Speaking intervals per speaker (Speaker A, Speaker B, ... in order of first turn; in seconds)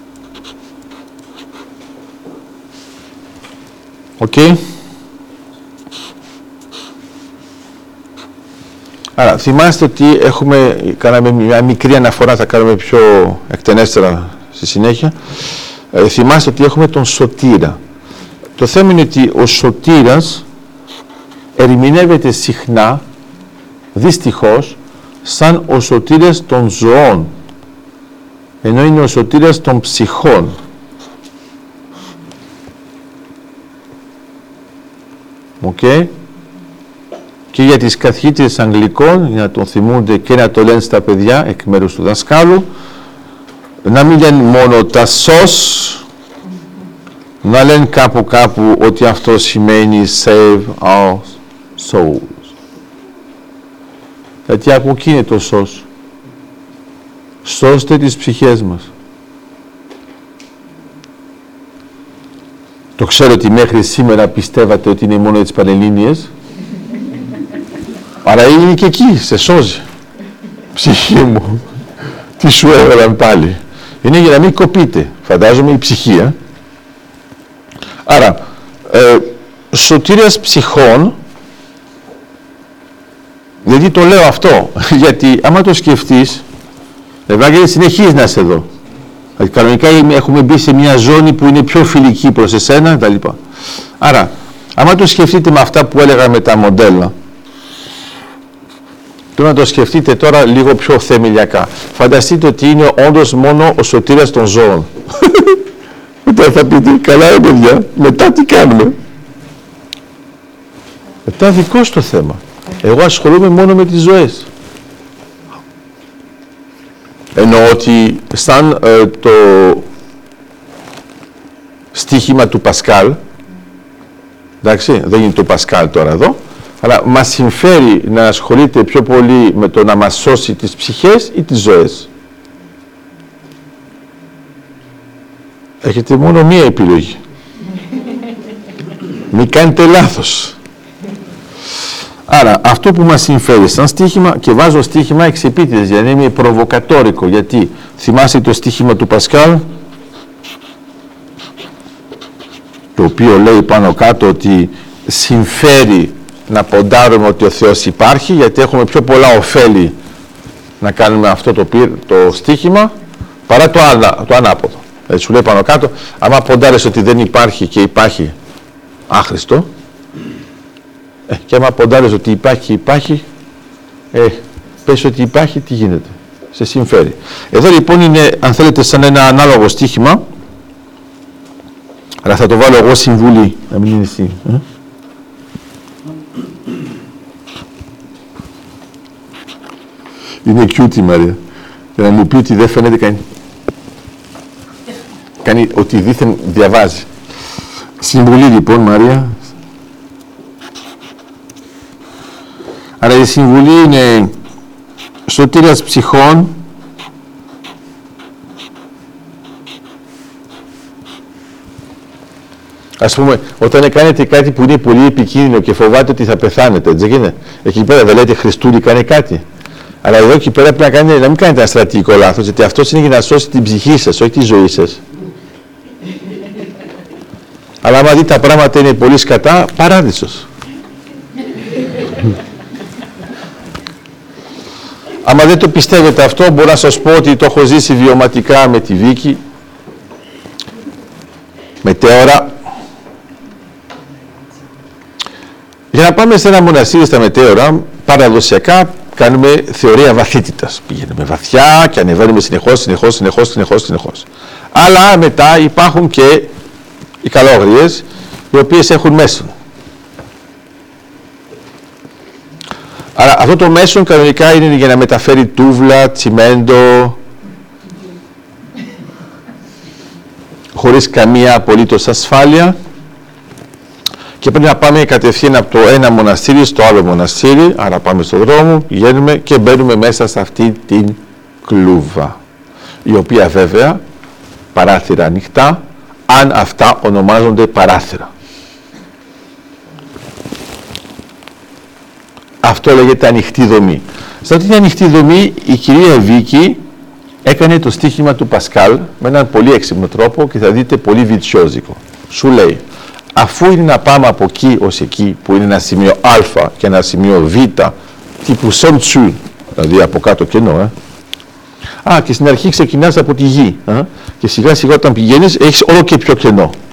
Speaker A: 4.2-4.6, 9.2-15.2, 15.9-17.8, 18.6-20.4, 21.6-23.0, 23.9-27.3, 28.6-30.6, 35.6-36.1, 37.5-42.7, 43.8-46.0, 47.4-52.5, 54.5-55.9, 57.4-58.9, 63.0-66.3, 68.2-69.8, 70.7-71.6, 72.4-76.3, 78.0-81.2, 83.6-86.4, 87.3-88.7, 89.4-93.4, 94.0-97.1, 99.3-105.6, 106.2-109.0, 111.2-114.5, 117.3-119.9, 121.9-123.2, 124.6-132.1, 135.8-137.2, 139.3-140.6, 142.3-149.6, 152.9-159.9, 160.8-162.9, 163.5-168.3, 169.1-169.7, 171.3-173.2, 174.1-180.2, 182.2-184.6, 190.4-191.4, 191.9-193.2, 195.4-197.1, 198.0-199.4, 203.0-204.3, 205.3-206.6, 213.0-219.4, 220.0-225.0, 227.8-230.5, 235.2-239.4, 241.8-242.5, 245.9-256.5, 257.2-259.5, 263.1-267.2, 270.7-272.8, 274.4-282.4, 283.0-284.0, 284.7-288.3, 292.6-296.8, 297.4-302.8, 303.3-310.9, 312.0-316.8